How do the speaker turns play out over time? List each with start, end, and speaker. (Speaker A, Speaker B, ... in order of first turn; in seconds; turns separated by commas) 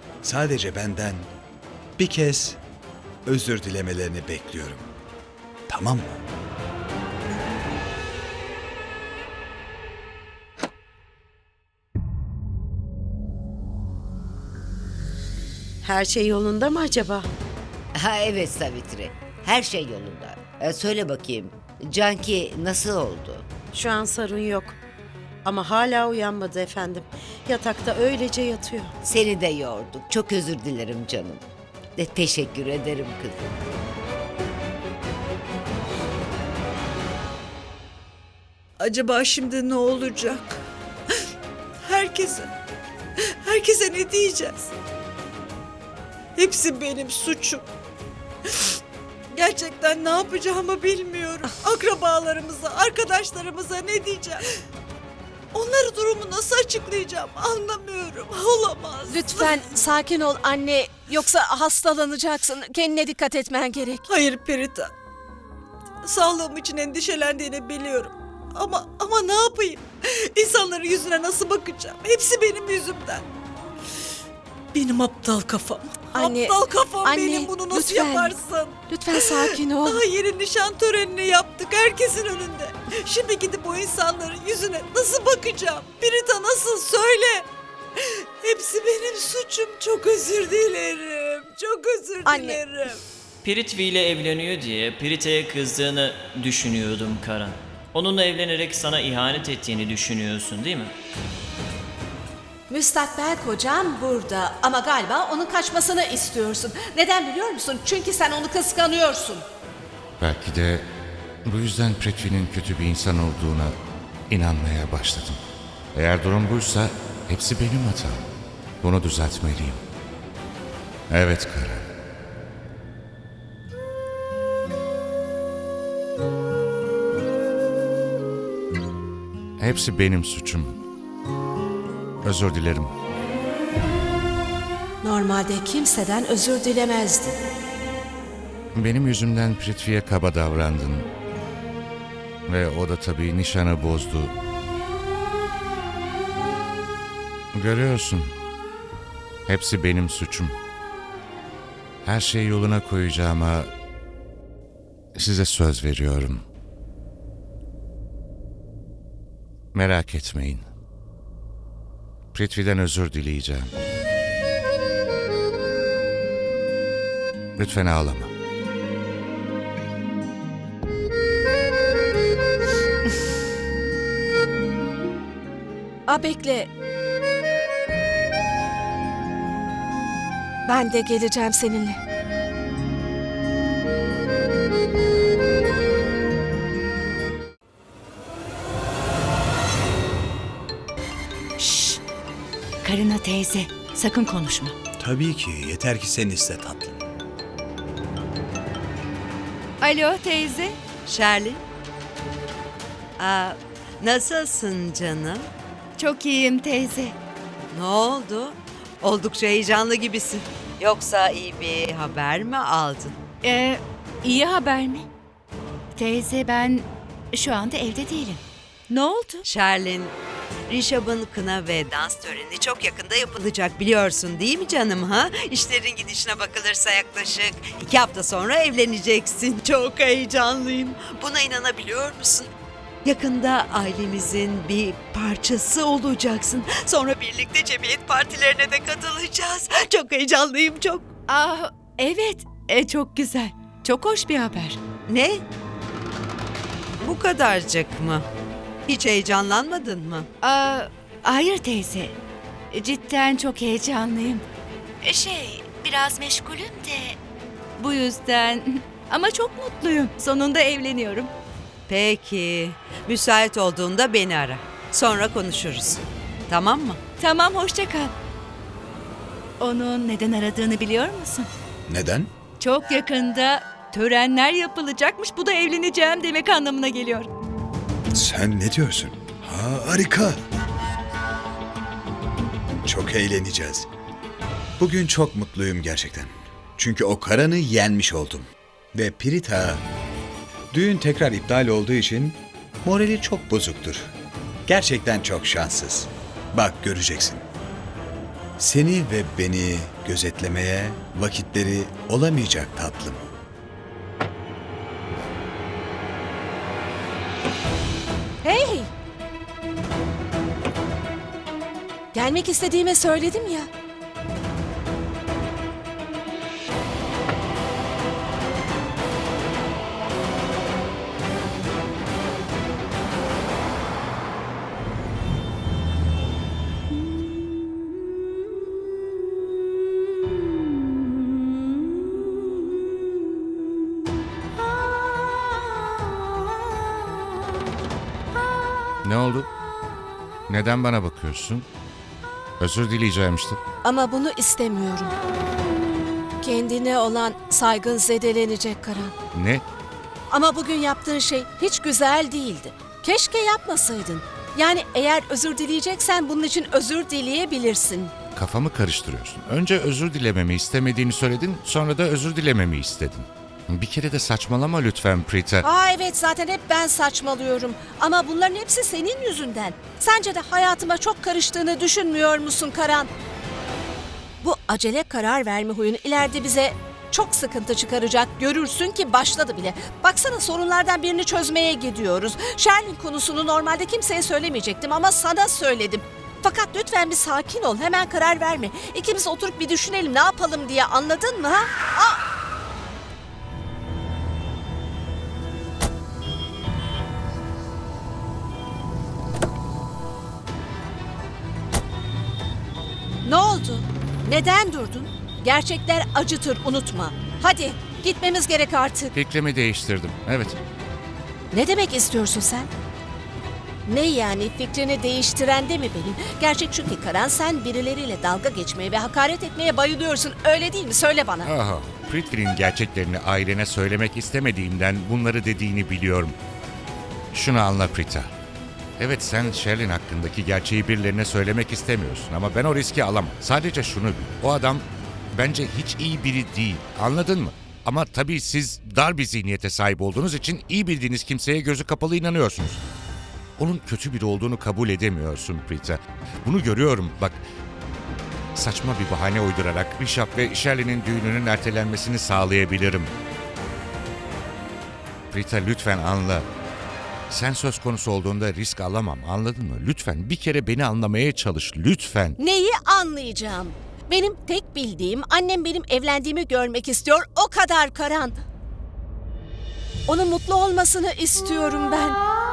Speaker A: 0.2-1.3, Speaker A: 2.0-2.6, Speaker A: 3.2-4.9, Speaker A: 5.7-6.2, Speaker B: 15.8-17.3, Speaker C: 17.9-23.5, Speaker B: 23.7-24.8, Speaker B: 25.4-28.9, Speaker C: 29.0-31.4, Speaker C: 32.0-33.5, Speaker D: 38.8-40.6, Speaker D: 41.8-42.5, Speaker D: 43.4-44.7, Speaker D: 46.4-47.6, Speaker D: 49.3-54.5, Speaker D: 55.5-59.5, Speaker E: 59.1-64.0, Speaker D: 64.1-64.9, Speaker D: 66.0-73.2, Speaker D: 74.7-93.0, Speaker E: 76.1-78.3, Speaker E: 78.9-80.0, Speaker E: 92.2-92.6, Speaker F: 93.4-100.9, Speaker E: 102.7-109.4, Speaker G: 110.2-110.8, Speaker G: 111.4-113.7, Speaker G: 114.3-115.4, Speaker G: 115.9-118.2, Speaker G: 118.8-119.8, Speaker G: 121.1-121.8, Speaker G: 129.6-130.8, Speaker G: 132.2-132.9, Speaker E: 135.0-137.4, Speaker G: 138.7-141.1, Speaker G: 142.4-144.3, Speaker G: 147.5-148.3, Speaker G: 149.5-150.6, Speaker G: 152.0-153.7, Speaker G: 155.1-156.4, Speaker G: 159.7-160.7, Speaker G: 162.3-163.7, Speaker G: 167.6-168.3, Speaker E: 176.1-176.7, Speaker E: 180.7-182.0, Speaker H: 191.6-192.0, Speaker H: 192.8-194.8, Speaker A: 195.0-197.1, Speaker H: 199.8-200.8, Speaker I: 201.1-201.6, Speaker I: 203.2-205.5, Speaker H: 206.0-207.1, Speaker I: 207.7-213.2, Speaker H: 213.4-215.1, Speaker H: 215.9-219.5, Speaker I: 219.5-220.1, Speaker I: 220.7-232.5, Speaker I: 233.0-241.1, Speaker H: 241.3-244.8, Speaker I: 245.1-245.4, Speaker I: 247.0-248.2, Speaker I: 248.9-250.3, Speaker H: 250.4-252.1, Speaker H: 252.7-254.4, Speaker H: 255.0-257.2, Speaker H: 257.8-261.3, Speaker I: 261.9-267.0, Speaker H: 267.2-268.1, Speaker H: 269.6-271.5, Speaker A: 271.9-272.3, Speaker H: 272.6-277.3, Speaker A: 278.1-280.4, Speaker A: 282.8-283.9, Speaker A: 284.8-289.8, Speaker A: 290.7-294.1, Speaker A: 294.7-297.4, Speaker A: 298.6-303.3, Speaker E: 308.4-308.9, Speaker E: 312.1-313.7, Speaker G: 339.0-339.5, Speaker G: 340.5-341.6, Speaker G: 342.6-343.6, Speaker E: 343.8-345.1, Speaker E: 346.4-349.1, Speaker G: 349.3-349.6, Speaker E: 350.3-358.1, Speaker G: 358.3-365.7, Speaker E: 365.6-373.1, Speaker E: 374.4-392.2, Speaker E: 403.2-409.1, Speaker G: 409.1-410.6, Speaker E: 411.5-412.7, Speaker E: 413.9-421.5, Speaker G: 421.4-426.4, Speaker G: 427.3-428.3, Speaker G: 429.0-442.8, Speaker G: 443.6-447.4, Speaker G: 448.5-453.1, Speaker G: 455.3-456.5, Speaker G: 457.3-462.4, Speaker E: 462.4-468.4, Speaker E: 470.1-472.2